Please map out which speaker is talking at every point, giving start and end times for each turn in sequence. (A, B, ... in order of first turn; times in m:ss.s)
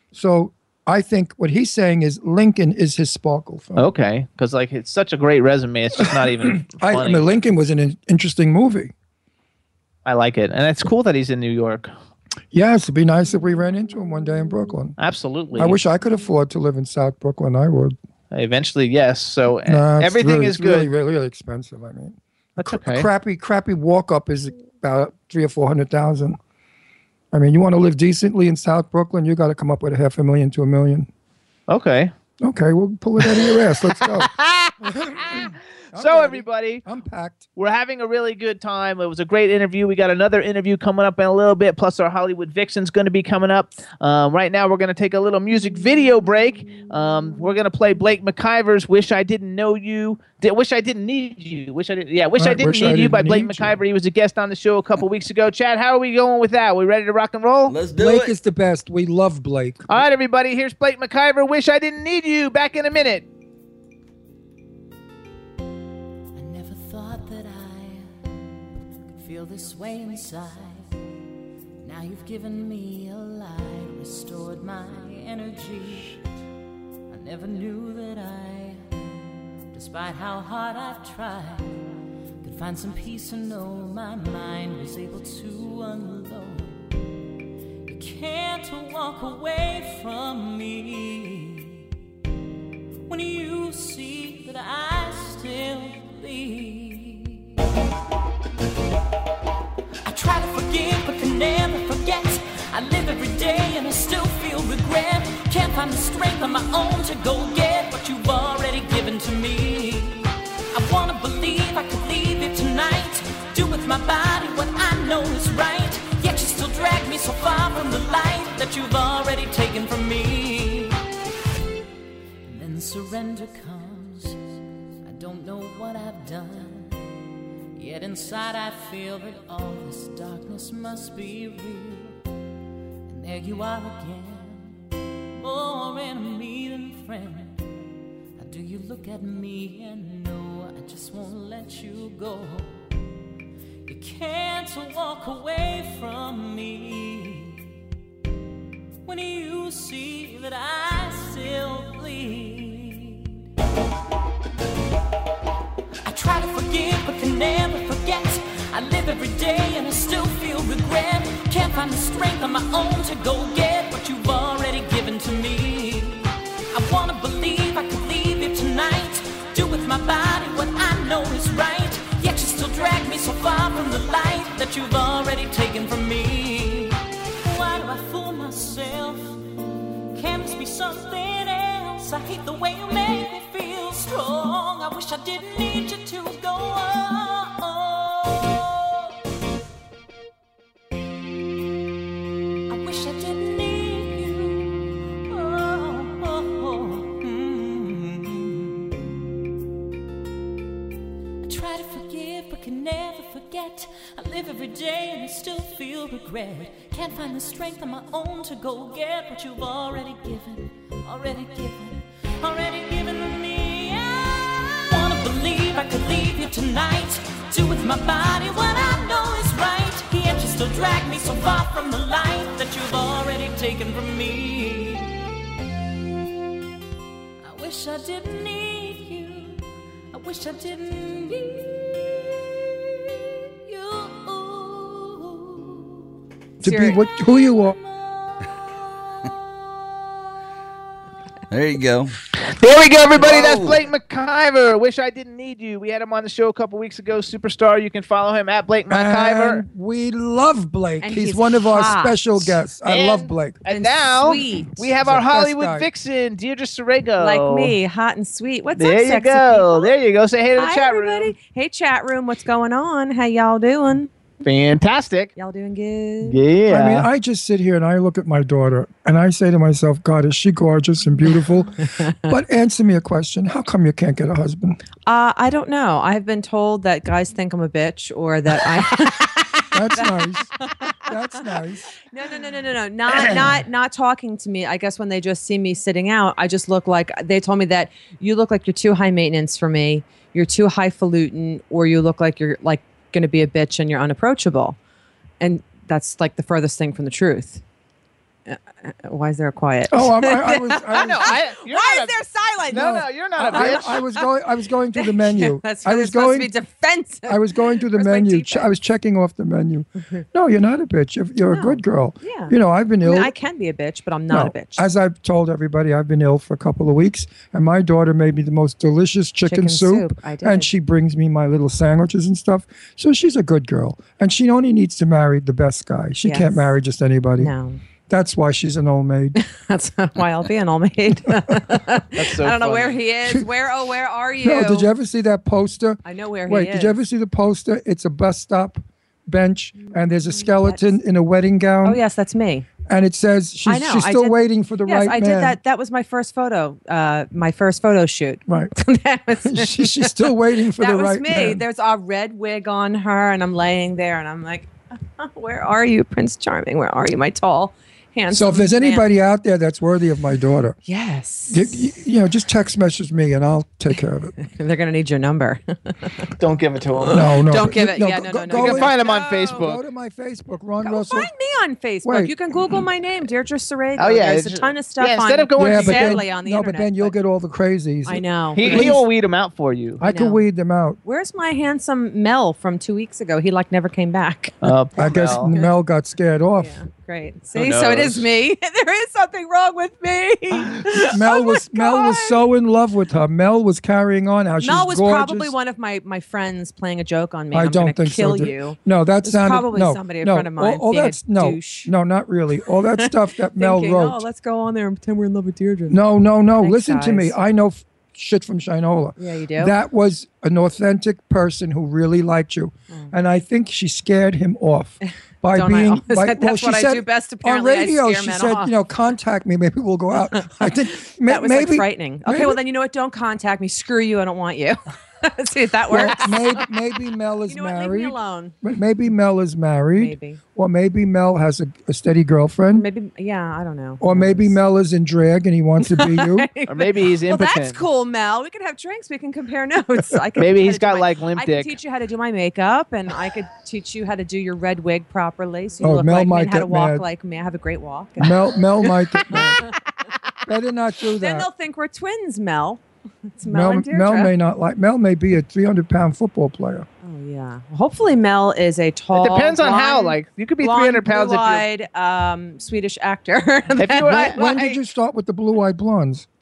0:00.1-0:03.9 A
0:03.8-0:07.2 B
0:06.4-0:08.9 A
0:10.0-0:11.9 B
0:12.5-0:15.0 A
0:15.0-0:15.8 B
0:15.6-0:18.0 A
0:18.3-0:20.9 B
0:19.7-0:26.4 A
0:22.6-0:23.1 B
0:27.3-0:31.1 A
0:31.7-0:32.1 B
0:32.4-0:34.3 A
0:33.3-0:36.8 B
0:34.9-0:37.5 A
0:37.6-0:57.7 B
0:52.4-0:53.8 A
0:57.7-0:58.4 C
0:57.9-0:59.9 A
0:59.9-1:03.3 B
1:06.4-1:08.3 D
1:09.2-1:11.0 D
1:11.8-1:16.2 D
1:17.1-1:18.9 D
1:19.7-1:21.8 D
1:22.4-1:26.9 D
1:27.8-1:31.8 D
1:33.1-1:37.4 D
1:40.0-2:01.0 D
2:02.4-2:07.0 D
2:07.8-2:12.2 D
2:13.1-2:14.8 D
2:15.3-2:17.7 D
2:18.4-2:22.8 D
2:23.9-2:27.7 D
2:29.0-2:33.3 D
2:36.0-2:59.4 D
3:00.1-3:09.1 D
3:12.7-3:18.9 D
3:21.4-3:45.2 D
3:47.4-3:56.1 D
3:56.6-3:57.0 E
3:56.6-3:57.8 A
3:57.1-3:58.6 D
4:01.5-4:02.2 C
4:02.4-4:09.6 B
4:03.2-4:03.8 C
4:08.9-4:13.7 A
4:11.0-4:12.6 E
4:12.9-4:17.8 B
4:13.7-4:14.8 E
4:14.8-4:15.9 A
4:17.2-4:20.0 E
4:18.8-4:21.3 B
4:20.6-4:24.1 E
4:24.4-4:25.3 B
4:25.4-4:26.4 E
4:26.2-4:27.1 B
4:26.7-4:34.8 A
4:35.1-4:41.6 E
4:39.7-4:40.5 A
4:41.1-4:41.9 A
4:42.1-4:54.8 E
4:55.4-4:57.6 E
4:58.5-5:04.2 E
4:59.9-5:01.4 A
5:00.9-5:02.2 B
5:02.7-5:04.0 B
5:02.7-5:06.5 A
5:04.9-5:08.7 E
5:07.3-5:13.3 A
5:11.5-5:14.8 E
5:14.3-5:27.5 A
5:19.4-5:20.7 E
5:26.2-5:26.6 E
5:27.4-5:27.8 E
5:28.1-5:29.4 A
5:29.4-5:34.9 E
5:32.2-5:33.0 B
5:34.4-5:42.0 A
5:36.0-5:37.0 E
5:39.9-5:40.9 E
5:41.8-5:42.7 E
5:42.9-5:45.6 A
5:43.7-5:59.1 E
5:48.5-5:48.7 A
5:49.4-5:51.6 A
5:58.3-6:00.8 A
6:00.9-6:01.8 E
6:01.5-6:04.4 A
6:04.4-6:06.3 E
6:06.4-6:07.2 B
6:07.0-6:09.7 E
6:07.1-6:11.3 A
6:08.5-6:09.8 B
6:10.8-6:17.2 E
6:12.0-6:12.4 A
6:14.0-6:16.3 B
6:15.6-6:19.0 A
6:18.1-6:19.0 E
6:18.6-6:20.0 B
6:20.0-6:21.0 A
6:20.0-6:20.4 E
6:21.0-6:24.6 E
6:24.6-6:25.5 B
6:25.0-6:26.8 A
6:26.6-6:32.4 E
6:27.5-6:28.3 B
6:31.1-6:35.5 A
6:34.6-6:41.9 E
6:37.5-6:44.2 A
6:42.9-6:46.0 E
6:45.9-7:02.6 A
6:46.6-6:47.4 E
6:49.2-6:49.7 E
6:55.5-6:58.7 E
7:00.2-7:06.7 E
7:05.9-7:12.9 A
7:07.5-7:08.6 E
7:10.0-7:10.4 E
7:12.7-7:14.6 E
7:14.0-7:16.5 A
7:15.8-7:28.5 E
7:16.7-7:17.8 B
7:20.4-7:21.8 B
7:25.8-7:27.1 A
7:28.2-7:29.6 A
7:29.3-7:29.7 E
7:30.5-7:31.5 A
7:31.2-7:32.8 E
7:33.4-7:34.3 E
7:33.4-7:36.9 A
7:37.0-7:44.8 E
7:39.1-7:41.7 B
7:43.8-7:44.5 B
7:44.1-7:46.3 A